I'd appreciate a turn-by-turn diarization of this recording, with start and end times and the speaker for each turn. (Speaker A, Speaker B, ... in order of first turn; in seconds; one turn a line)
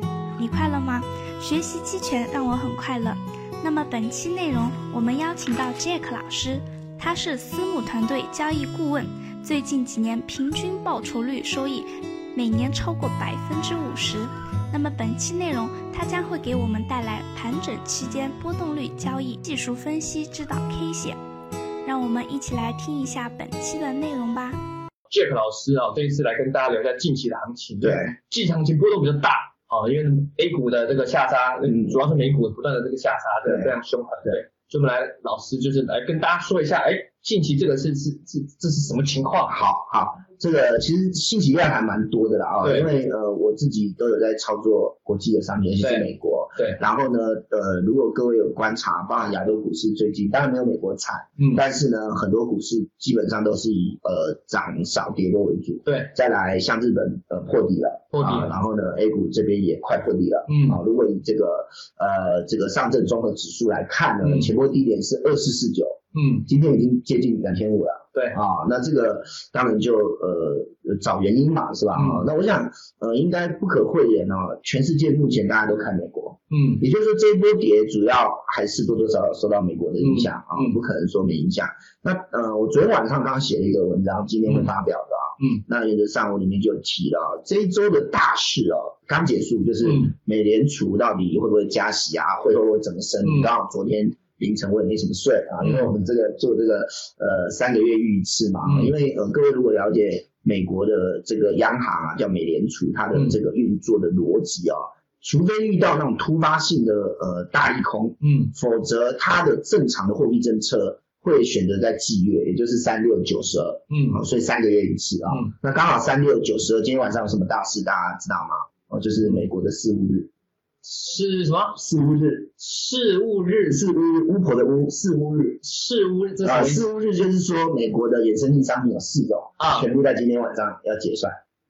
Speaker A: 0.4-21.2
Speaker A: 21.8-24.6
Speaker B: 25.1-39.6
Speaker C: 27.8-28.1
Speaker C: 31.6-32.0
Speaker C: 33.4-33.7
Speaker C: 39.5-120.3
Speaker B: 42.6-42.9
Speaker B: 45.8-46.8
Speaker B: 51.4-51.6
Speaker B: 55.9-56.1
Speaker B: 58.1-58.6
Speaker B: 60.5-60.8
Speaker B: 64.2-64.5
Speaker B: 66.1-66.5
Speaker B: 71.9-72.3
Speaker B: 76.5-76.8
Speaker B: 80.0-80.8
Speaker B: 84.5-84.7
Speaker B: 89.8-90.1
Speaker B: 93.2-93.5
Speaker B: 95.6-95.9
Speaker B: 98.6-98.9
Speaker B: 103.1-103.4
Speaker B: 108.2-108.5
Speaker B: 113.9-114.2
Speaker B: 120.8-121.8
Speaker C: 121.7-122.6
Speaker B: 122.6-123.8
Speaker C: 123.7-125.7
Speaker B: 125.6-126.8
Speaker C: 126.4-131.4
Speaker B: 129.6-129.9